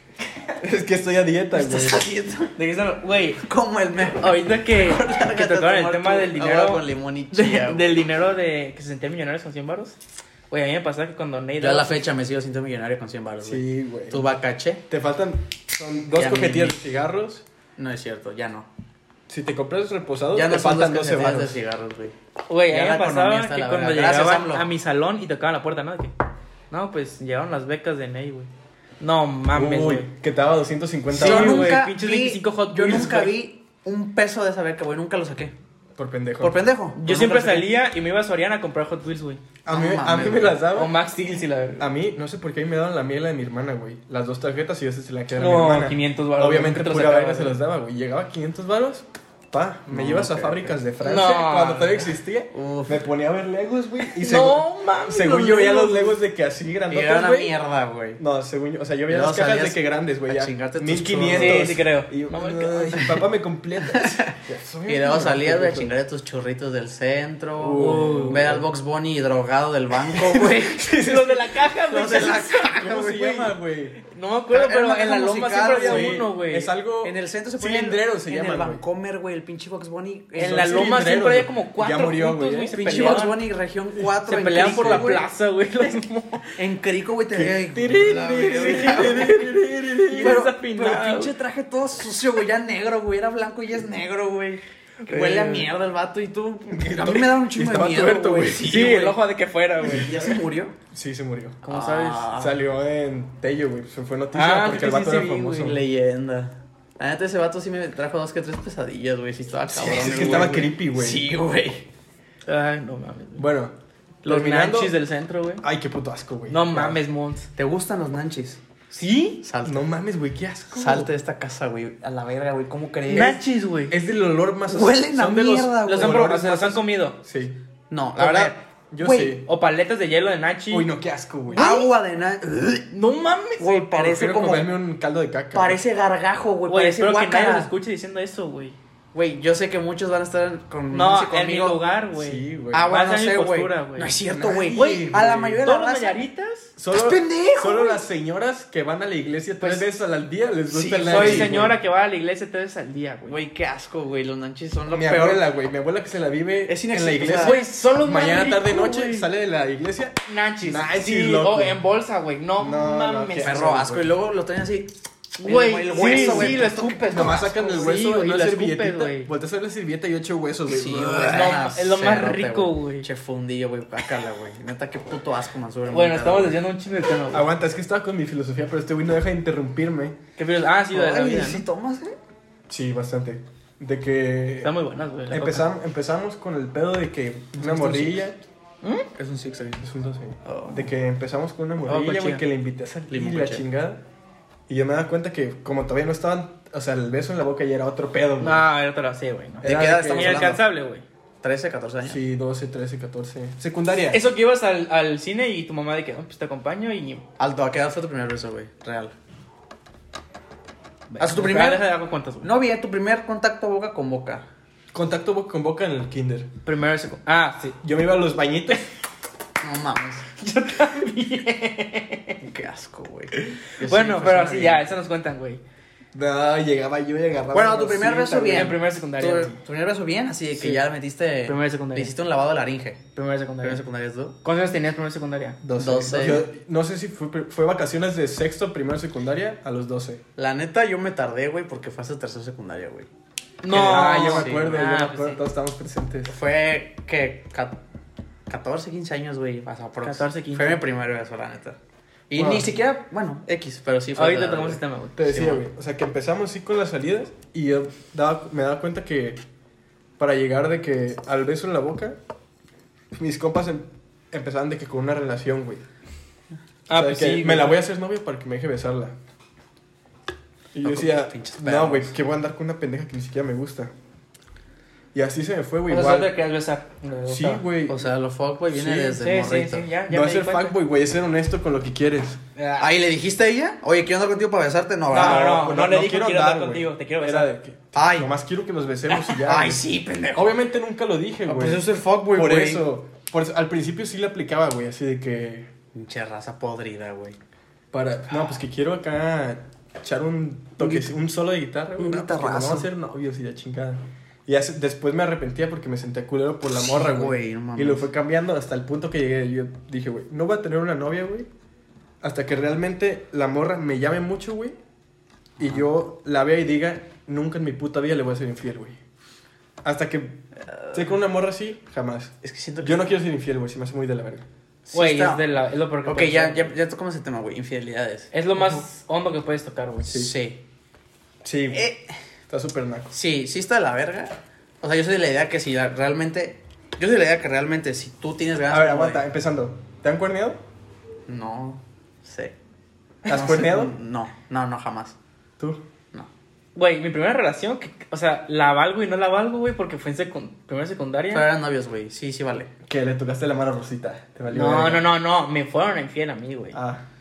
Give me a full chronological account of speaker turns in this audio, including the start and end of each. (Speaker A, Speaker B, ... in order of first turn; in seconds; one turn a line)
Speaker A: 0.6-2.0
Speaker B: 1.5-2.5
Speaker C: 2.5-3.4
Speaker B: 3.4-7.9
Speaker C: 4.1-9.9
Speaker C: 10.5-12.0
Speaker B: 11.6-14.8
Speaker A: 13.4-14.3
Speaker A: 14.9-17.4
Speaker B: 16.1-16.8
Speaker B: 17.8-18.7
Speaker A: 19.3-21.6
Speaker B: 20.3-22.1
Speaker C: 22.5-26.1
Speaker B: 22.7-24.7
Speaker C: 26.7-30.1
Speaker A: 29.5-31.7
Speaker B: 31.1-35.5
Speaker C: 31.1-33.3
Speaker A: 36.0-36.6
Speaker B: 36.4-37.7
Speaker C: 37.0-39.4
Speaker A: 39.6-40.9
Speaker B: 39.7-40.6
Speaker C: 40.7-41.9
Speaker A: 41.8-57.5
Speaker C: 45.4-47.6
Speaker B: 49.9-50.8
Speaker C: 51.0-52.1
Speaker B: 52.5-53.0
Speaker C: 54.1-56.2
Speaker B: 56.9-58.2
Speaker A: 58.2-65.9
Speaker B: 59.1-61.7
Speaker C: 61.3-63.2
Speaker B: 63.9-64.3
Speaker B: 64.9-70.8
Speaker A: 67.6-68.7
Speaker C: 67.8-68.4
Speaker A: 70.1-71.6
Speaker C: 70.8-72.7
Speaker B: 71.9-73.5
Speaker A: 72.6-74.0
Speaker C: 74.0-76.7
Speaker B: 74.5-76.2
Speaker A: 75.8-78.8
Speaker B: 77.0-81.0
Speaker C: 80.4-83.4
Speaker A: 80.4-82.8
Speaker B: 82.7-85.2
Speaker A: 83.9-85.2
Speaker C: 84.3-86.5
Speaker B: 86.5-89.4
Speaker A: 87.3-90.4
Speaker C: 88.0-91.3
Speaker B: 90.1-99.2
Speaker C: 95.0-95.7
Speaker A: 96.7-98.9
Speaker C: 98.6-100.3
Speaker B: 99.8-100.7
Speaker A: 99.8-100.2
Speaker A: 100.9-101.6
Speaker C: 101.6-102.3
Speaker B: 101.7-102.5
Speaker A: 102.3-105.8
Speaker C: 104.3-105.7
Speaker B: 105.5-111.8
Speaker A: 109.7-111.3
Speaker C: 112.5-113.4
Speaker A: 113.4-115.0
Speaker C: 114.2-115.6
Speaker A: 115.6-117.0
Speaker C: 116.5-117.5
Speaker B: 117.5-118.6
Speaker C: 118.9-119.4
Speaker B: 119.4-119.8
Speaker A: 119.6-121.1
Speaker B: 120.7-123.4
Speaker C: 123.1-123.9
Speaker A: 123.9-127.6
Speaker B: 124.7-126.4
Speaker C: 125.8-127.2
Speaker B: 127.9-129.4
Speaker C: 128.2-128.5
Speaker A: 128.2-129.5
Speaker C: 129.4-130.9
Speaker A: 130.7-131.7
Speaker C: 131.5-131.9
Speaker B: 131.5-132.9
Speaker C: 132.9-134.1
Speaker B: 133.6-134.7
Speaker A: 134.0-135.8
Speaker B: 135.5-137.7
Speaker C: 136.7-138.8
Speaker B: 139.1-141.8
Speaker C: 140.9-144.2
Speaker A: 142.1-142.9
Speaker B: 142.7-146.2
Speaker A: 144.3-145.6
Speaker C: 144.7-146.7
Speaker A: 146.8-151.7
Speaker B: 146.9-148.0
Speaker C: 149.6-149.9
Speaker B: 150.7-151.6
Speaker C: 151.0-153.4
Speaker B: 153.3-155.4
Speaker A: 154.9-161.8
Speaker B: 156.7-157.6
Speaker C: 157.3-159.3
Speaker C: 160.2-163.8
Speaker A: 162.6-164.1
Speaker B: 163.4-167.5
Speaker C: 165.4-169.3
Speaker A: 166.0-171.6
Speaker B: 170.7-176.6
Speaker C: 171.2-173.1
Speaker C: 175.9-177.5
Speaker A: 177.3-180.2
Speaker C: 180.4-181.6
Speaker B: 180.9-182.2
Speaker A: 182.7-184.7
Speaker C: 184.6-185.7
Speaker A: 185.3-188.4
Speaker C: 187.7-188.1
Speaker B: 189.1-189.8
Speaker A: 189.8-194.0
Speaker B: 190.4-190.8
Speaker C: 191.8-192.4
Speaker B: 193.1-193.6
Speaker A: 194.7-198.7
Speaker C: 198.4-201.0
Speaker A: 199.6-200.6
Speaker B: 199.6-200.6
Speaker B: 201.4-202.2
Speaker A: 202.0-204.2
Speaker C: 204.1-207.2
Speaker B: 207.4-209.1
Speaker C: 211.1-212.5
Speaker B: 211.2-211.8
Speaker B: 212.4-214.4
Speaker A: 214.9-216.5
Speaker C: 216.6-217.8
Speaker A: 217.8-218.8
Speaker B: 219.6-220.2
Speaker C: 220.3-222.4
Speaker B: 222.4-224.8
Speaker C: 223.8-225.6
Speaker A: 226.1-228.7
Speaker B: 227.5-233.0
Speaker C: 228.5-229.6
Speaker C: 230.6-230.8
Speaker C: 231.4-232.1
Speaker C: 233.1-233.8
Speaker B: 233.6-234.4
Speaker C: 234.4-235.6
Speaker A: 235.6-240.2
Speaker B: 235.8-236.5
Speaker B: 240.3-243.1
Speaker C: 243.6-245.4
Speaker A: 243.7-246.3
Speaker B: 243.7-244.8
Speaker B: 246.3-247.8
Speaker B: 248.5-251.8
Speaker C: 250.0-250.8
Speaker B: 252.3-255.6
Speaker A: 252.3-252.7
Speaker C: 254.2-255.4
Speaker A: 255.2-259.4
Speaker A: 260.2-262.2
Speaker A: 263.1-265.8
Speaker C: 266.9-267.8
Speaker A: 266.9-269.1
Speaker A: 270.7-273.9
Speaker B: 270.8-272.1
Speaker A: 275.1-276.3
Speaker C: 275.9-277.6
Speaker A: 277.3-278.0
Speaker B: 277.9-279.9
Speaker A: 278.7-279.2
Speaker C: 278.9-280.8
Speaker A: 280.1-282.4
Speaker C: 282.6-282.9
Speaker B: 282.8-285.6
Speaker C: 285.1-287.5
Speaker A: 285.1-289.8
Speaker B: 287.9-288.3
Speaker B: 289.1-290.6
Speaker A: 290.3-295.7
Speaker B: 291.4-292.8
Speaker B: 295.9-297.4
Speaker A: 297.9-311.5
Speaker B: 300.8-301.1
Speaker B: 302.0-302.9
Speaker B: 306.8-308.1
Speaker A: 312.2-314.8
Speaker A: 315.6-319.0
Speaker B: 315.6-315.8
Speaker A: 319.8-324.4
Speaker B: 322.4-323.1
Speaker B: 324.9-325.4
Speaker C: 324.9-326.7
Speaker B: 326.0-328.3
Speaker C: 328.3-330.2
Speaker A: 328.6-328.8
Speaker A: 330.1-330.3
Speaker B: 330.1-330.6
Speaker A: 331.4-331.9
Speaker B: 331.7-332.1
Speaker A: 332.5-333.1
Speaker B: 333.1-339.2
Speaker A: 338.7-340.6
Speaker B: 341.3-342.5
Speaker A: 343.2-343.9
Speaker B: 343.3-345.1
Speaker C: 346.7-351.5
Speaker B: 351.3-352.7
Speaker A: 352.8-355.1
Speaker C: 354.5-356.8
Speaker A: 356.7-357.0